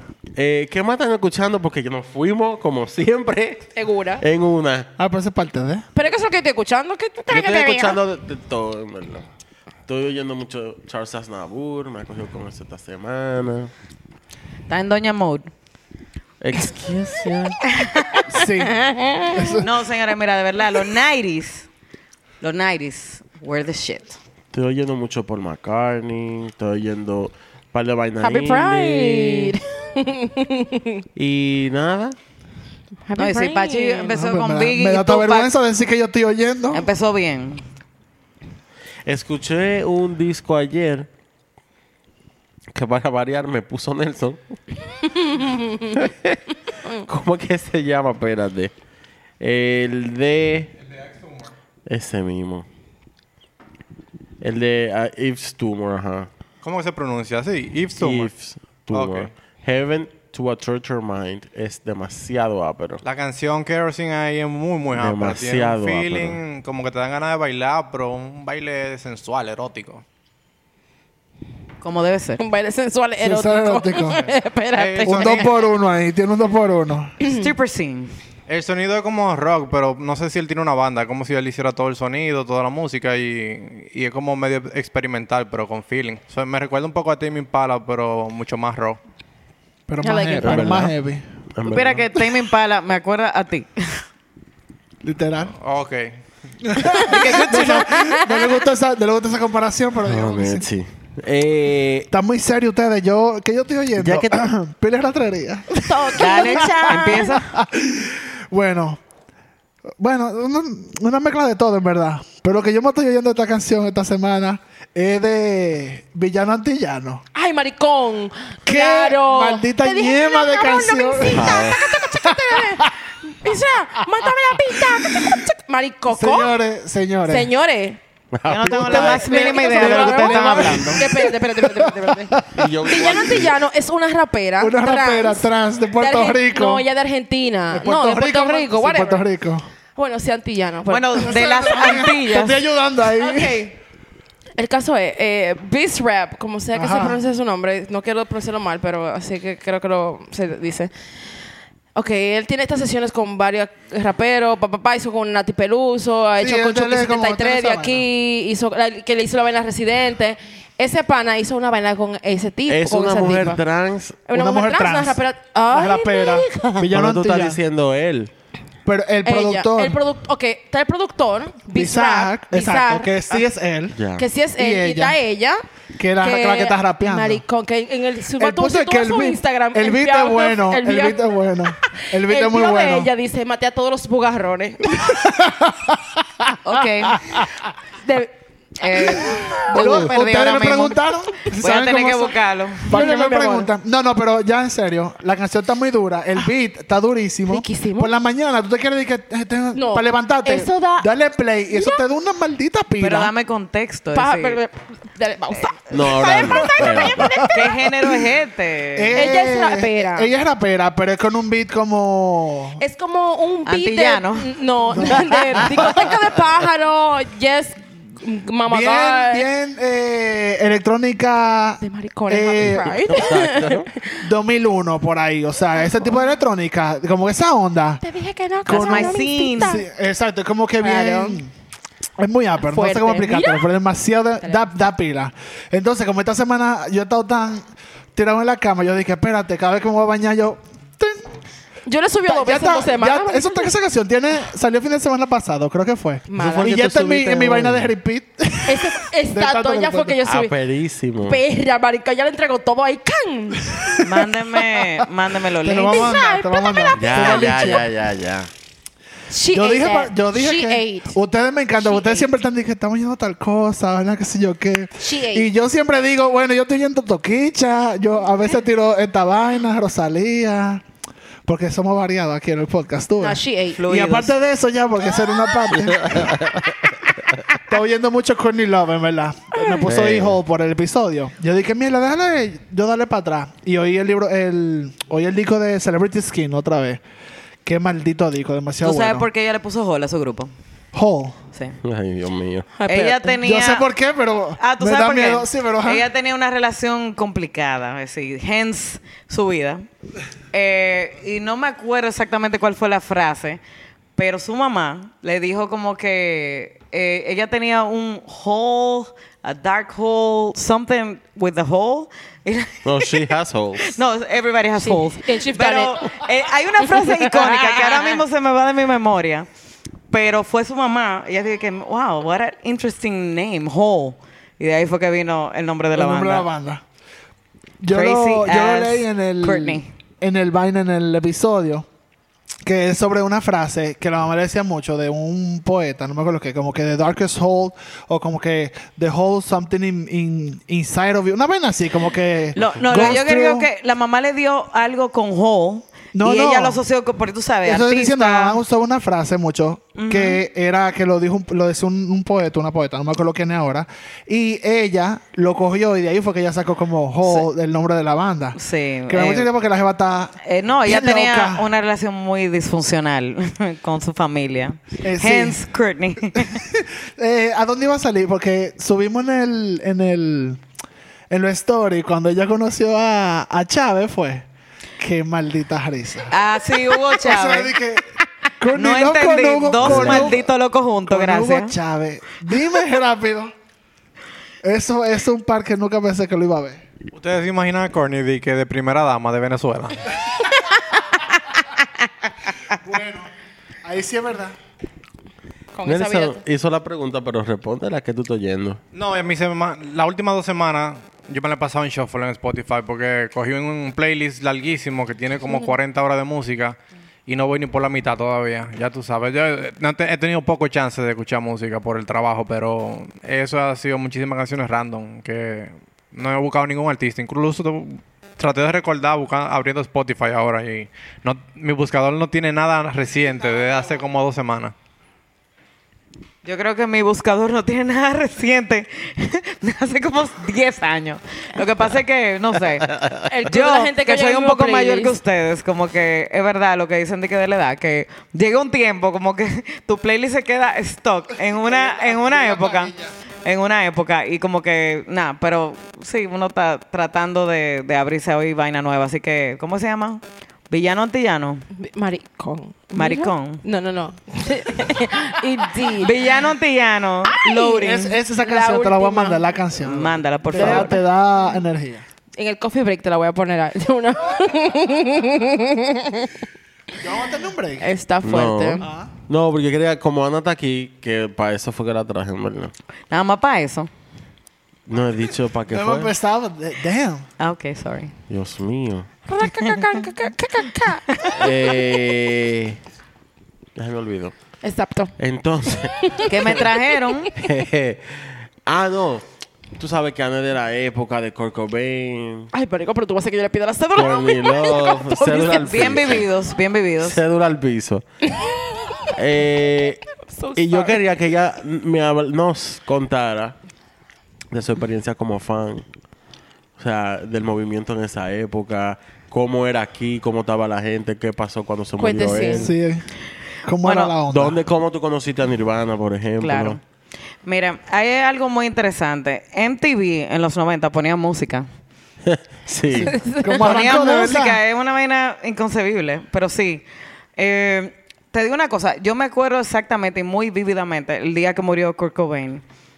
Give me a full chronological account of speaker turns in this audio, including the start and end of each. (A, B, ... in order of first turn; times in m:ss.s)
0:00.4-0:04.9 A
0:03.7-0:04.2 B
0:05.0-0:05.9 C
0:05.9-0:08.0 B
0:07.3-0:09.2 A
0:09.9-0:13.7 A
0:14.7-0:15.5 D
0:16.4-0:17.6 A
0:17.7-0:18.2 D
0:18.3-0:19.7 C
0:18.6-0:19.6 B
0:19.6-0:21.7 D
0:22.4-0:24.2 D
0:24.5-0:29.6 A
0:28.2-0:31.0 B
0:31.1-0:32.2 A
0:33.1-0:34.2 B
0:33.2-0:35.5 D
0:34.1-0:36.8 C
0:36.7-0:37.6 D
0:39.0-0:41.1 A
0:42.7-0:44.6 A
0:45.2-0:46.0 B
0:45.9-0:48.7 A
0:49.4-0:50.7 A
0:50.9-0:51.5 E
0:51.9-0:52.6 A
0:54.4-0:56.3 A
0:56.6-0:58.3 E
0:58.0-1:03.0 A
0:58.9-0:59.3 E
1:03.0-1:10.0 E
1:04.9-1:06.4 A
1:11.8-1:12.4 D
1:12.4-1:15.5 B
1:13.2-1:14.2 C
1:14.7-1:15.6 E
1:15.0-1:17.1 C
1:17.2-1:18.1 D
1:18.5-1:29.0 E
1:29.9-1:31.2 C
1:30.0-1:30.8 B
1:30.4-1:30.9 A
1:31.5-1:32.1 A
1:31.7-1:34.0 D
1:35.0-1:35.5 C
1:35.6-1:36.2 E
1:36.6-1:40.6 C
1:37.0-1:38.3 B
1:37.0-1:37.9 D
1:40.0-1:42.1 A
1:42.1-1:49.0 C
1:44.0-1:44.4 A
1:45.8-1:47.4 B
1:46.2-1:47.4 D
1:50.0-1:57.2 C
1:57.3-2:06.6 B
1:58.6-2:02.9 C
2:01.2-2:01.8 A
2:04.2-2:05.4 C
2:06.1-2:07.5 C
2:07.2-2:08.0 B
2:08.3-2:09.3 A
2:08.4-2:11.0 D
2:08.6-2:13.1 C
2:09.1-2:19.2 B
2:10.5-2:10.9 A
2:12.5-2:13.5 A
2:14.6-2:16.8 C
2:17.7-2:19.6 C
2:20.0-2:21.3 B
2:20.9-2:22.6 D
2:21.2-2:23.6 C
2:23.1-2:23.8 B
2:24.6-2:30.9 B
2:26.7-2:27.2 C
2:31.9-2:43.6 B
2:36.4-2:38.0 C
2:42.7-2:44.2 A
2:44.3-2:46.8 B
2:44.3-2:45.2 C
2:45.7-2:47.6 C
2:46.8-2:48.3 A
2:48.8-2:50.0 C
2:49.2-2:53.1 B
2:51.7-2:54.0 C
2:53.9-2:54.2 A
2:54.2-2:55.6 B
2:54.6-2:55.2 C
2:56.0-2:57.4 C
2:56.2-3:01.2 B
2:58.4-3:03.1 C
3:02.0-3:05.0 B
3:04.9-3:07.5 C
3:06.6-3:07.2 D
3:08.0-3:08.3 B
3:08.8-3:11.0 D
3:09.2-3:10.0 B
3:09.2-3:23.3 C
3:11.6-3:13.1 D
3:12.9-3:13.7 B
3:17.5-3:18.1 B
3:19.7-3:21.1 B
3:21.7-3:22.0 B
3:23.0-3:24.6 D
3:24.1-3:27.8 B
3:25.6-3:26.6 D
3:25.9-3:27.3 A
3:27.1-3:27.7 C
3:27.5-3:29.3 D
3:29.0-3:32.8 C
3:29.1-3:30.3 B
3:32.8-3:39.5 B
3:33.6-3:34.5 D
3:34.9-3:36.0 C
3:38.6-3:43.2 C
3:41.8-3:44.2 B
3:43.0-3:43.9 A
3:44.2-3:48.0 C
3:48.0-3:49.8 B
3:48.6-3:49.8 D
3:48.6-3:51.5 C
3:50.8-3:51.4 B
3:52.2-4:01.3 C
3:52.7-3:53.7 B
3:54.4-3:54.7 B
4:01.9-4:03.7 B
4:02.2-4:10.2 C
4:06.3-4:07.7 B
4:06.6-4:07.9 A
4:08.6-4:10.5 B
4:10.2-4:11.4 A
4:11.2-4:14.0 B
4:14.0-4:16.2 D
4:15.6-4:17.8 C
4:15.9-4:17.8 B
4:16.9-4:18.5 A
4:19.3-4:21.2 B
4:19.5-4:30.8 C
4:21.8-4:22.3 B
4:25.0-4:25.5 B
4:31.4-4:36.4 C
4:33.2-4:33.8 B
4:33.8-4:34.4 D
4:35.7-4:37.0 A
4:37.6-4:47.0 C
4:39.8-4:40.4 A
4:47.6-4:49.3 C
4:48.8-4:50.5 D
4:50.9-4:51.4 C
4:51.8-4:52.7 A
4:52.7-4:53.4 B
4:52.9-4:53.9 D
4:53.4-4:56.0 C
4:54.6-4:59.8 D
5:00.5-5:03.6 D
5:04.2-5:19.5 D
5:12.8-5:14.0 A
5:14.8-5:16.2 B
5:16.8-5:18.1 B
5:20.1-5:26.5 D
5:25.9-5:26.8 C
5:27.8-5:31.8 C
5:27.9-5:29.9 D
5:32.6-5:43.7 C
5:42.5-5:48.6 D
5:46.1-5:46.8 C
5:47.6-6:01.6 C
5:50.0-5:50.4 D
5:58.6-5:59.5 D
6:00.4-6:06.6 D
6:05.0-6:05.6 C
6:06.4-6:10.6 C
6:11.3-6:14.4 C
6:15.0-6:16.3 C
6:16.3-6:17.7 D
6:17.1-6:20.4 C
6:18.7-6:21.7 D
6:19.8-6:20.3 A
6:21.1-6:23.5 C
6:24.6-6:26.8 C
6:27.1-6:30.1 E
6:32.7-6:33.3 C
6:33.8-6:34.6 C
6:35.7-6:36.4 B
6:35.8-6:38.8 A
6:38.9-7:04.7 E
7:06.4-7:31.6 D
7:13.2-7:15.1 B
7:21.6-7:23.1 C
7:31.7-7:36.1 B
7:32.9-7:33.6 D
7:36.0-7:38.1 D
7:37.3-7:37.8 B
7:37.8-7:42.0 C
7:38.4-7:39.4 B
7:39.8-7:41.0 D
7:40.6-7:41.0 B
7:42.4-7:46.3 B
7:47.0-7:47.9 C
7:47.8-7:48.9 B
7:48.2-7:52.7 A
7:48.8-7:49.1 C
7:53.1-7:53.9 D
7:54.9-7:56.1 A
7:55.7-7:57.3 C
7:57.4-7:58.1 D
7:58.3-7:59.1 A
7:59.3-8:01.3 B
8:01.1-8:01.4 D
8:01.3-8:02.8 A
8:03.8-8:04.3 A
8:04.6-8:05.1 B
8:05.2-8:06.6 A
8:06.0-8:06.8 B
8:06.2-8:07.3 D
8:07.3-8:09.2 A
8:09.8-8:12.5 A
8:12.5-8:16.0 B
8:13.9-8:16.3 A
8:15.4-8:17.2 D
8:17.0-8:18.0 A
8:18.3-8:19.1 B
8:19.1-8:20.0 A
8:20.2-8:21.0 B
8:20.6-8:23.6 A
8:24.5-8:25.8 A
8:26.8-8:32.7 A
8:32.0-8:32.7 B
8:32.5-8:33.1 C
8:33.6-8:34.6 C
8:33.8-8:34.1 D
8:34.3-8:36.8 A
8:36.4-8:36.8 D
8:37.4-8:41.7 D
8:42.2-8:43.2 A
8:43.0-8:43.8 B
8:43.3-8:44.6 C
8:43.6-8:46.8 D
8:47.4-8:52.6 D